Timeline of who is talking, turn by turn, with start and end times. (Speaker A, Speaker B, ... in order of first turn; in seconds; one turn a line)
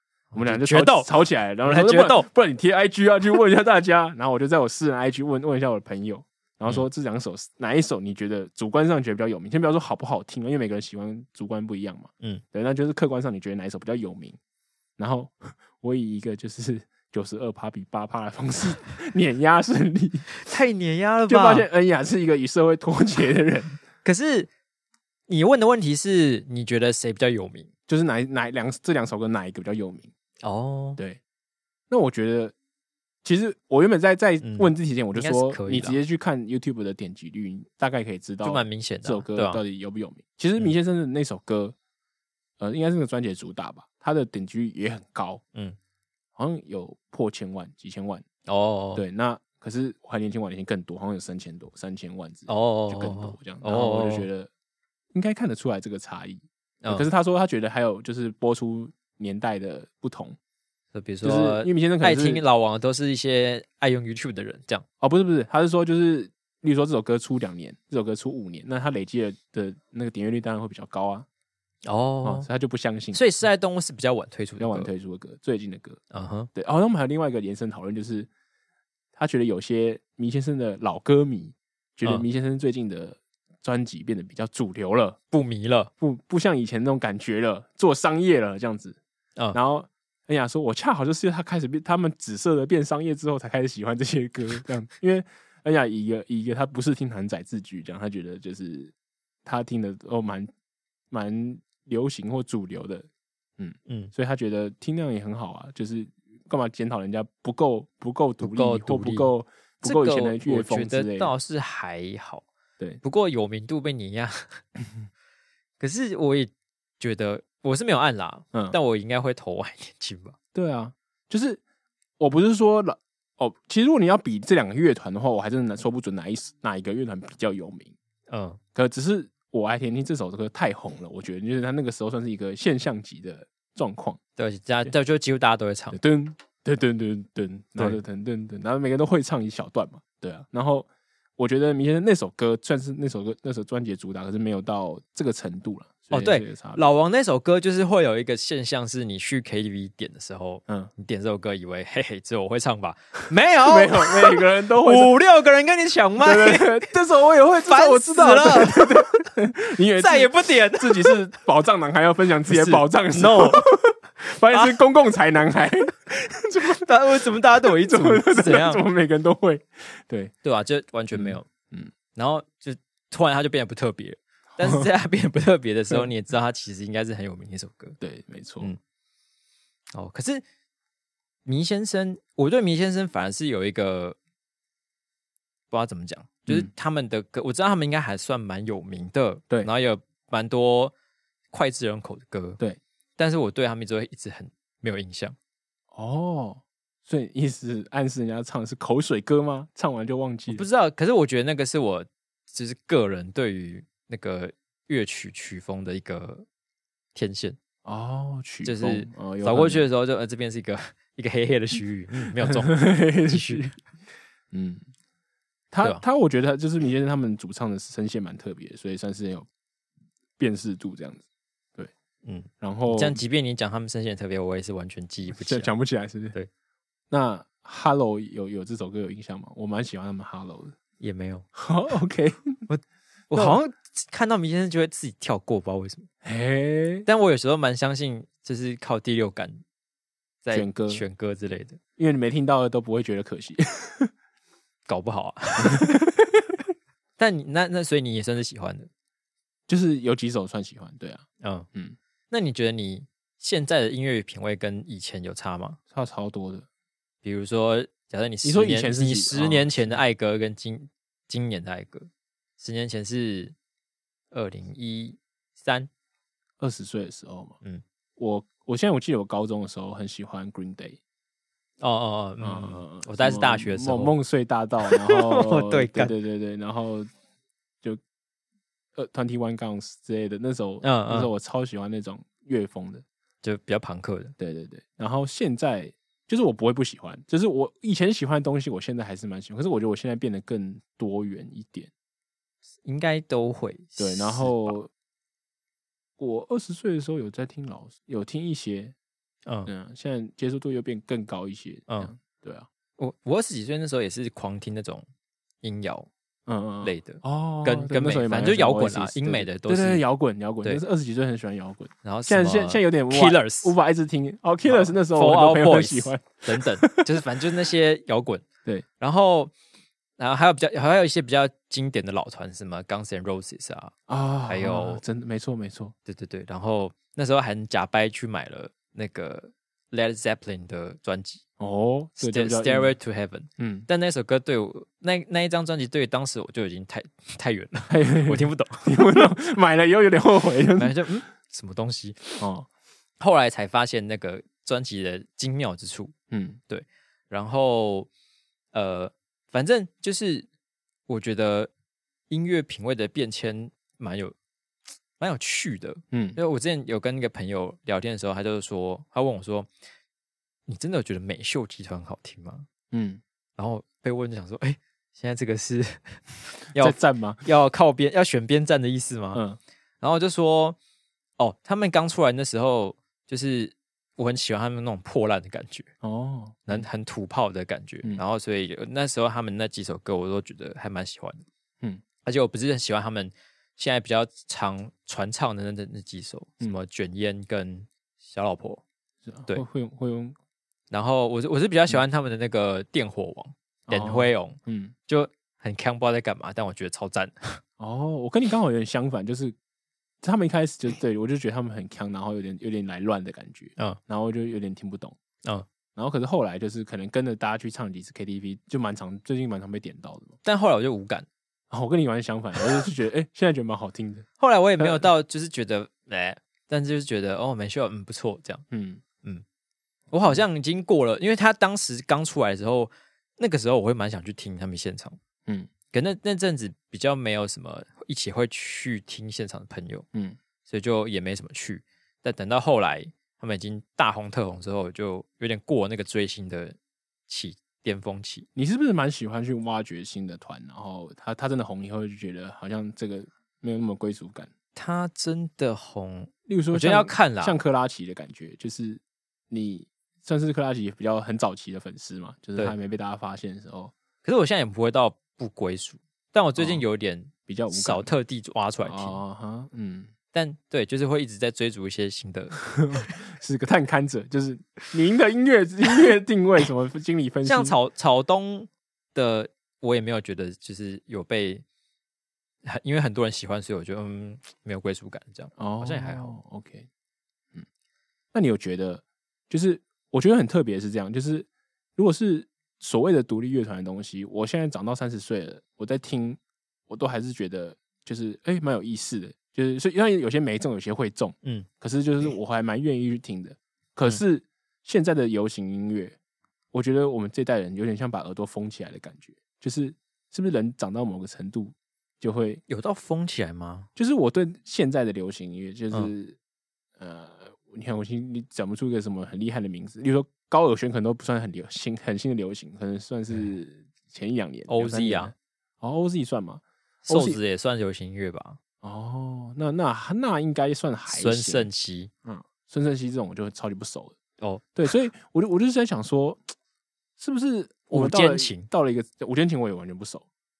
Speaker A: 0.3-1.1
Speaker B: 0.3-14.4
Speaker A: 1.6-2.3
Speaker B: 15.0-20.3
Speaker A: 20.4-21.7
Speaker B: 21.3-23.8
Speaker A: 24.0-24.5
Speaker A: 25.3-27.7
Speaker B: 27.9-30.1
Speaker A: 30.4-31.0
Speaker B: 31.9-32.5
Speaker B: 33.2-41.8
Speaker A: 34.4-36.0
Speaker A: 38.4-39.6
Speaker B: 42.6-45.4
Speaker B: 46.4-48.2
Speaker A: 48.5-49.0
Speaker B: 49.0-54.5
Speaker A: 52.5-54.3
Speaker B: 55.1-60.4
Speaker A: 56.8-57.1
Speaker A: 60.9-64.8
Speaker B: 61.2-62.4
Speaker B: 65.0-71.3
Speaker A: 71.8-72.5
Speaker B: 72.2-73.2
Speaker A: 73.1-74.9
Speaker B: 74.6-76.0
Speaker A: 76.1-76.5
Speaker B: 76.5-78.3
Speaker B: 79.2-85.2
Speaker A: 85.3-85.9
Speaker B: 86.0-89.0
Speaker B: 89.5-98.9
Speaker B: 99.5-100.5
Speaker B: 101.1-111.3
Speaker A: 103.9-104.1
Speaker A: 108.4-112.5
Speaker A: 113.0-114.6
Speaker A: 115.8-120.4
Speaker B: 120.5-121.6
Speaker B: 122.2-128.0
Speaker A: 128.3-128.6
Speaker B: 128.8-134.2
Speaker A: 134.4-136.0
Speaker B: 135.9-146.8
Speaker A: 146.1-156.9
Speaker B: 153.7-155.1
Speaker B: 156.2-170.3
Speaker A: 157.7-159.0
Speaker A: 160.0-161.2
Speaker A: 162.5-163.7
Speaker A: 164.5-164.8
Speaker A: 166.7-168.8
Speaker A: 170.4-171.5
Speaker B: 171.1-171.9
Speaker A: 172.1-178.0
Speaker B: 174.6-174.9
Speaker B: 178.0-178.7
Speaker A: 179.9-180.4
Speaker A: 181.5-184.2
Speaker A: 185.7-190.9
Speaker A: 191.5-192.6
Speaker A: 193.2-195.4
Speaker B: 195.9-200.6
Speaker A: 200.5-206.5
Speaker A: 207.2-207.6
Speaker B: 207.8-209.9
Speaker A: 208.6-213.7
Speaker B: 212.4-213.8
Speaker B: 214.5-214.8
Speaker B: 215.7-219.5
Speaker B: 220.4-221.2
Speaker A: 222.2-225.7
Speaker B: 222.6-223.2
Speaker B: 225.3-226.4
Speaker B: 227.1-230.8
Speaker A: 231.0-231.5
Speaker B: 231.6-232.4
Speaker A: 232.7-236.1
Speaker B: 233.3-233.6
Speaker B: 236.2-237.1
Speaker A: 237.1-239.6
Speaker A: 240.4-241.8
Speaker B: 240.5-241.0
Speaker B: 242.0-244.1
Speaker A: 244.9-246.1
Speaker B: 245.6-246.5
Speaker A: 247.2-248.9
Speaker B: 249.7-252.0
Speaker A: 251.4-251.7
Speaker A: 252.3-255.8
Speaker B: 255.9-256.7
Speaker A: 257.2-262.1
Speaker B: 258.4-260.0
Speaker A: 262.6-263.5
Speaker A: 264.3-265.9
Speaker B: 266.6-267.6
Speaker B: 268.2-271.0
Speaker A: 271.8-274.1
Speaker B: 272.4-277.1
Speaker A: 274.9-276.2
Speaker B: 279.0-283.0
Speaker A: 280.8-281.3
Speaker A: 283.4-284.4
Speaker B: 284.4-291.9
Speaker A: 292.8-294.8
Speaker B: 294.0-294.9
Speaker B: 296.2-298.9
Speaker A: 299.5-299.7
Speaker B: 299.7-302.7
Speaker A: 301.9-302.1
Speaker A: 303.0-305.1
Speaker A: 305.6-306.1
Speaker B: 306.5-317.0
Speaker A: 306.8-310.0
Speaker A: 312.0-313.7
Speaker A: 314.7-318.5
Speaker A: 319.0-319.5
Speaker A: 320.2-323.9
Speaker B: 324.1-325.9
Speaker A: 324.5-325.0
Speaker A: 326.1-331.4
Speaker B: 331.6-332.9
Speaker A: 332.2-339.0
Speaker B: 333.6-333.9
Speaker B: 337.9-340.9
Speaker A: 340.8-342.4
Speaker B: 342.4-342.7
Speaker A: 343.2-346.1
Speaker B: 346.3-346.6
Speaker A: 346.7-348.1
Speaker A: 348.7-350.5
Speaker A: 351.1-351.7
Speaker A: 352.3-354.4
Speaker A: 355.2-359.7
Speaker B: 356.1-356.4
Speaker A: 360.7-362.7
Speaker B: 362.9-363.2
Speaker A: 363.6-369.4
Speaker B: 366.8-367.4
Speaker B: 369.3-369.6
Speaker A: 370.0-370.8
Speaker A: 371.4-375.9
Speaker B: 376.0-376.9
Speaker A: 376.7-381.4
Speaker A: 382.2-388.8
Speaker B: 389.3-390.4
Speaker A: 390.9-397.6
Speaker B: 393.9-394.9
Speaker B: 397.8-399.5
Speaker B: 400.2-405.1
Speaker B: 406.0-410.4
Speaker A: 410.4-411.3
Speaker B: 411.7-414.3
Speaker A: 414.4-418.7
Speaker B: 414.8-415.1
Speaker B: 418.7-419.0
Speaker A: 420.1-425.2
Speaker A: 425.9-430.1
Speaker A: 430.7-436.8
Speaker A: 437.3-438.5
Speaker B: 438.6-444.5
Speaker A: 444.8-447.6
Speaker B: 446.5-453.9
Speaker A: 454.2-459.2
Speaker B: 456.6-456.9
Speaker B: 457.5-458.1
Speaker B: 458.8-460.1
Speaker A: 460.3-462.7
Speaker B: 462.8-467.8
Speaker A: 467.4-471.6
Speaker A: 472.6-476.4
Speaker B: 475.6-476.9
Speaker B: 478.3-496.2
Speaker B: 496.7-502.6
Speaker A: 502.7-503.9
Speaker B: 504.0-506.4
Speaker B: 507.0-517.4
Speaker A: 514.7-515.3
Speaker A: 517.1-518.6
Speaker B: 518.8-521.7
Speaker A: 521.1-522.1
Speaker B: 522.2-524.2
Speaker A: 524.4-524.7
Speaker B: 524.8-526.4
Speaker B: 527.2-530.3
Speaker A: 527.9-528.7